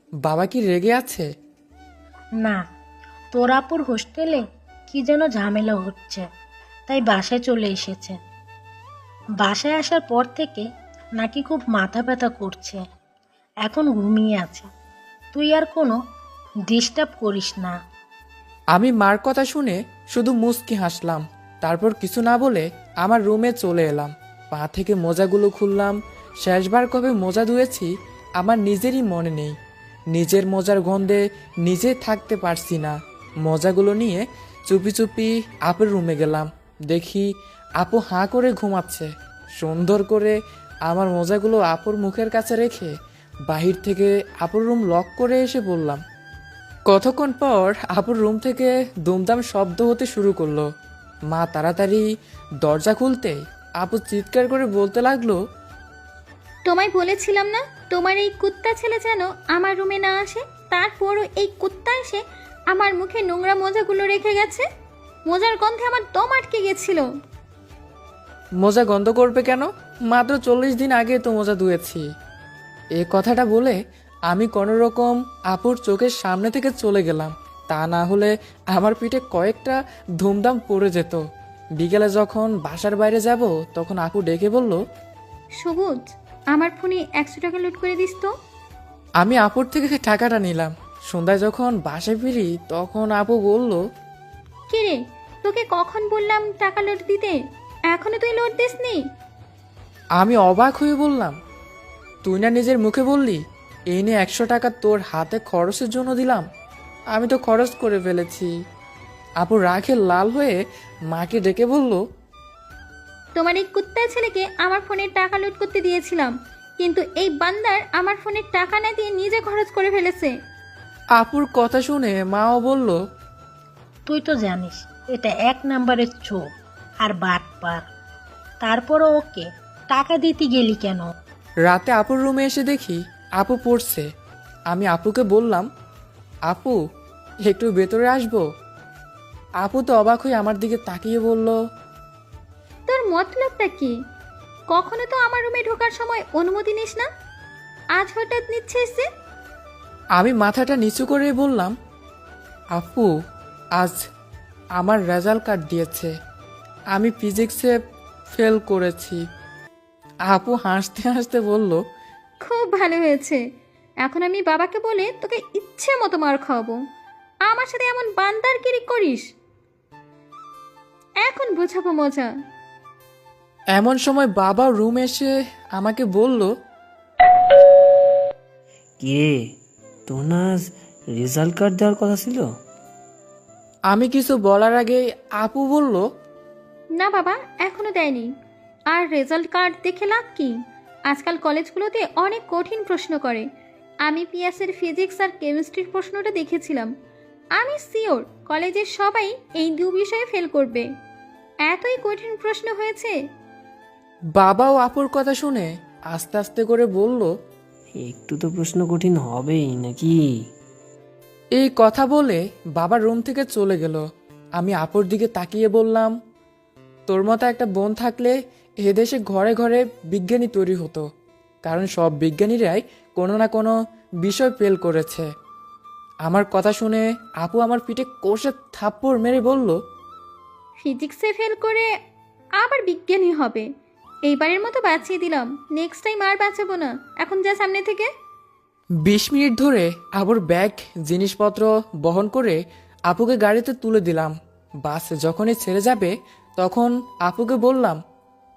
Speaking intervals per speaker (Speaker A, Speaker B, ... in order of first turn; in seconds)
Speaker A: 0.2-1.3, 18.7-29.5, 30.1-37.3, 37.8-42.9, 43.5-46.0, 46.9-50.6, 51.3-52.0, 52.6-55.4, 68.6-72.0, 73.0-73.8, 74.3-81.2, 81.8-84.8, 89.2-93.8, 100.2-101.3, 102.2-103.4, 103.9-106.4, 107.1-108.5, 109.4-110.6, 111.1-112.0, 121.2-123.0, 131.7-134.1, 134.7-135.7, 136.5-136.8, 137.5-138.4, 139.6-141.5, 150.2-151.7, 152.7-153.1, 154.8-156.1, 156.9-157.7, 158.3-159.2, 160.3-161.8, 173.7-176.5, 183.9-186.0, 204.3-207.3, 211.6-214.0, 214.6-216.1, 217.1-221.0, 221.6-223.7, 224.2-225.3, 226.3-229.8, 239.0-248.0
Speaker B: 3.3-6.2, 6.9-8.2, 9.4-10.7, 11.2-12.8, 13.6-14.7, 15.3-16.0, 16.7-17.7, 124.1-126.4, 127.0-127.8, 128.6-131.1
Speaker C: 56.7-64.6, 65.3-67.0, 85.6-86.0, 86.5-88.3, 94.7-97.3, 97.9-99.0, 113.4-120.3, 142.9-143.9, 144.7-147.1, 148.0-149.1, 162.4-163.4, 164.0-166.8, 167.5-169.2, 171.2-172.3, 187.0-188.3, 188.9-190.5, 191.1-193.4, 194.1-196.9, 197.6-200.8, 201.7-203.1, 230.8-231.8, 232.6-233.6, 234.3-238.1
Speaker D: 179.0-179.3, 180.1-182.4, 208.0-210.2